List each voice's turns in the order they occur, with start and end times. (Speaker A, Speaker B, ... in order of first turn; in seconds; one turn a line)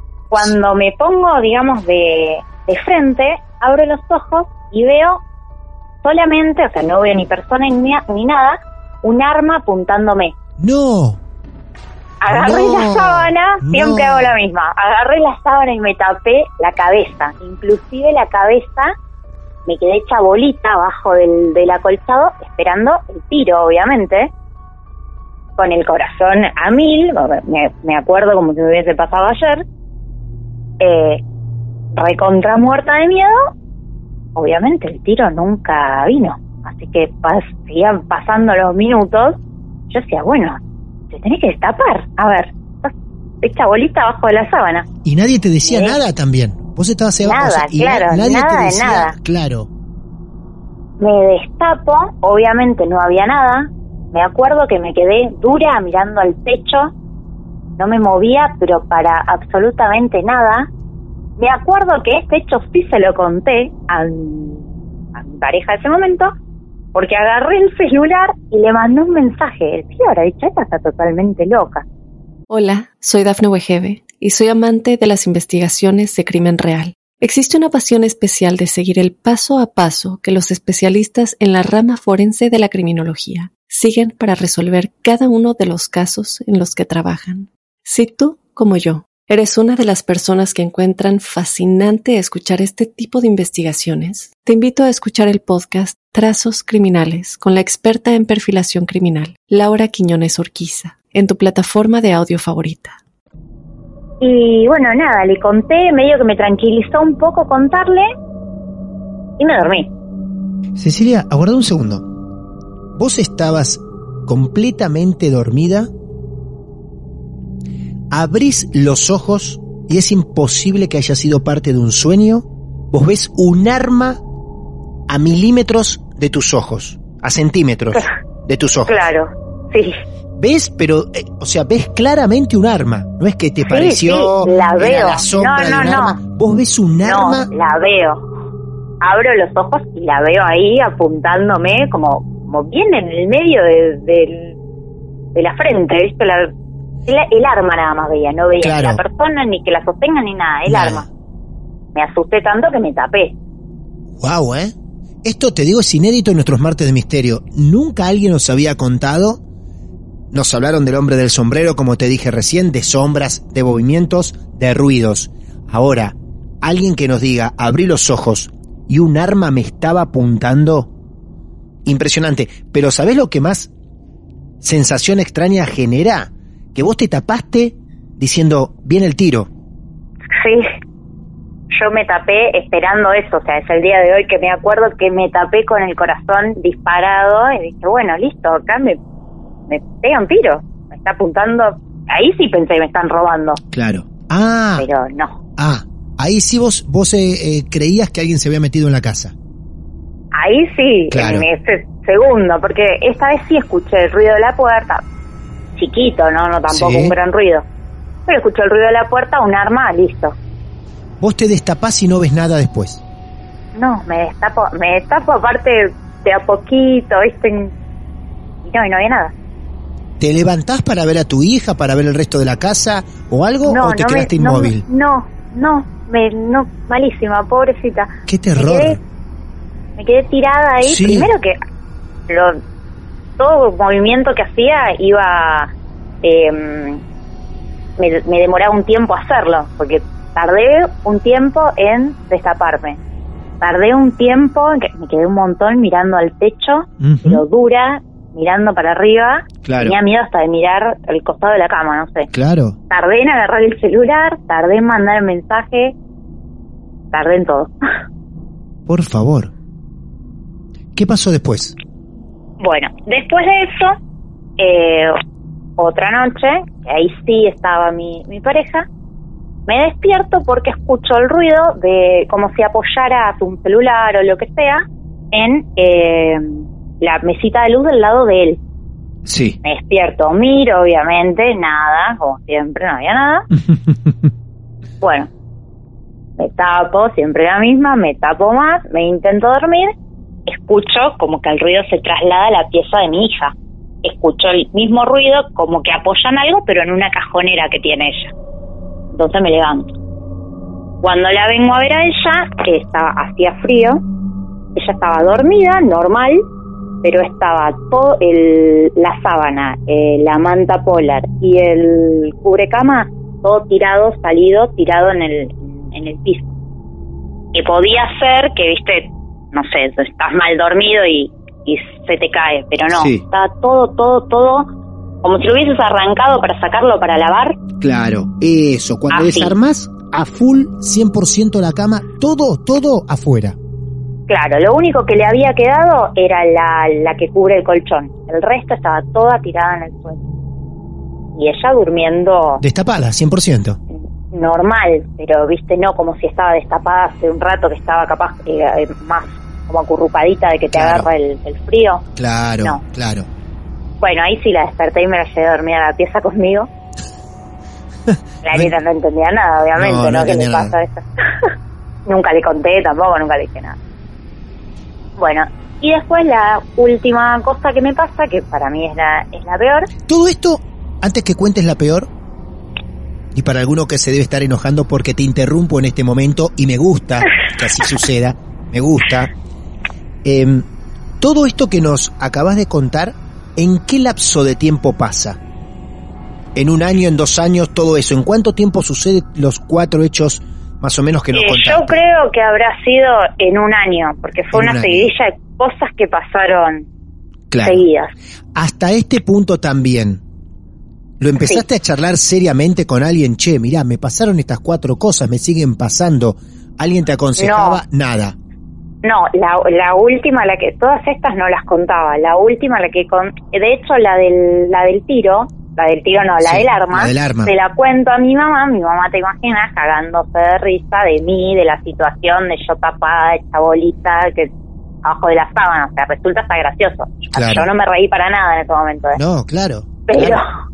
Speaker A: 0.3-5.2
Speaker A: 6.0-10.3
Speaker B: 10.6-11.2
Speaker A: 12.2-18.9
Speaker B: 12.3-14.4
Speaker A: 19.7-24.3
Speaker A: 25.6-29.6
Speaker A: 30.8-31.2
Speaker A: 31.9-33.5
Speaker A: 34.4-39.4
Speaker A: 39.9-40.6
Speaker A: 41.1-44.9
Speaker B: 45.0-49.7
Speaker A: 45.6-46.0
Speaker A: 47.2-49.1
Speaker A: 51.0-56.9
Speaker A: 57.8-60.7
Speaker A: 61.4-66.3
Speaker A: 66.9-71.8
Speaker C: 72.5-103.0
Speaker A: 104.2-108.1
Speaker A: 109.4-109.9
Speaker B: 110.8-112.1
Speaker B: 113.0-115.9
Speaker B: 118.1-124.2
Speaker B: 125.1-129.1
Speaker A: 128.9-129.9
Speaker B: 130.4-137.5
Speaker A: 133.7-136.2
Speaker A: 137.0-138.2
Speaker A: 139.0-144.6
Speaker A: 145.3-146.5
Speaker A: 147.1-151.1
Speaker B: 148.6-149.0
Speaker B: 150.7-151.1
Speaker A: 151.9-153.4
Speaker B: 154.2-159.4
Speaker B: 160.3-170.9
Speaker B: 171.8-173.7
Speaker B: 174.6-179.5
Speaker A: 180.3-180.7
Speaker A: 181.7-189.0
Speaker A: 189.7-193.6
Speaker B: 193.7-194.9
Speaker A: 194.8-195.4
Speaker B: 195.6-199.3
Speaker A: 200.3-205.0
Speaker B: 201.1-201.5
Speaker A: 205.8-207.7
Speaker B: 206.7-207.2
Speaker A: 208.3-210.3
Speaker B: 211.2-213.0
Speaker A: 213.8-217.7
Speaker A: 218.7-219.3
Speaker B: 220.2-224.8
Speaker A: 223.7-229.0
Speaker B: 228.3-229.0
Speaker A: 230.0-231.6
Speaker B: 230.8-231.3
Speaker A: 232.3-232.6
Speaker A: 233.4-235.7
Speaker A: 236.2-237.0
Speaker A: 238.0-243.0
Speaker A: 243.6-252.3
Speaker B: 247.0-247.4
Speaker B: 249.6-250.0
Speaker B: 252.3-252.8
Speaker A: 252.9-255.9
Speaker A: 257.1-257.7
Speaker B: 258.9-259.5
Speaker B: 260.9-261.8
Speaker A: 262.6-264.0
Speaker A: 264.6-265.2
Speaker A: 265.8-268.9
Speaker A: 269.7-278.6
Speaker B: 279.2-279.6
Speaker A: 279.6-283.5
Speaker B: 283.6-284.3
Speaker A: 285.0-285.3
Speaker A: 286.4-289.9
Speaker A: 290.5-298.3
Speaker A: 299.1-299.9
Speaker A: 301.0-304.0
Speaker A: 304.8-306.4
Speaker A: 307.0-316.5
Speaker A: 317.5-324.7
Speaker B: 322.9-323.2
Speaker A: 325.2-327.6
Speaker B: 327.8-333.6
Speaker A: 329.1-329.5
Speaker A: 334.3-340.2
Speaker A: 341.4-342.6
Speaker B: 342.6-343.8
Speaker A: 343.9-352.0
Speaker B: 350.7-351.1
Speaker B: 352.2-353.3
Speaker A: 354.0-356.7
Speaker B: 358.1-358.7
Speaker A: 358.4-361.5
Speaker B: 359.8-360.7
Speaker A: 362.1-363.8
Speaker A: 365.2-369.9
Speaker B: 370.1-372.1
Speaker B: 373.3-379.3
Speaker B: 380.2-380.7
Speaker B: 381.2-385.4
Speaker B: 386.6-392.0
Speaker A: 391.3-396.9
Speaker B: 394.5-395.1
Speaker B: 397.5-397.8
Speaker A: 397.6-398.1
Speaker B: 398.6-400.2
Speaker B: 401.2-408.4
Speaker A: 401.4-401.6
Speaker A: 407.4-407.8
Speaker A: 409.0-424.5
Speaker B: 416.4-417.5
Speaker A: 425.0-429.2
Speaker B: 427.3-427.7
Speaker B: 429.1-430.4
Speaker A: 430.1-430.5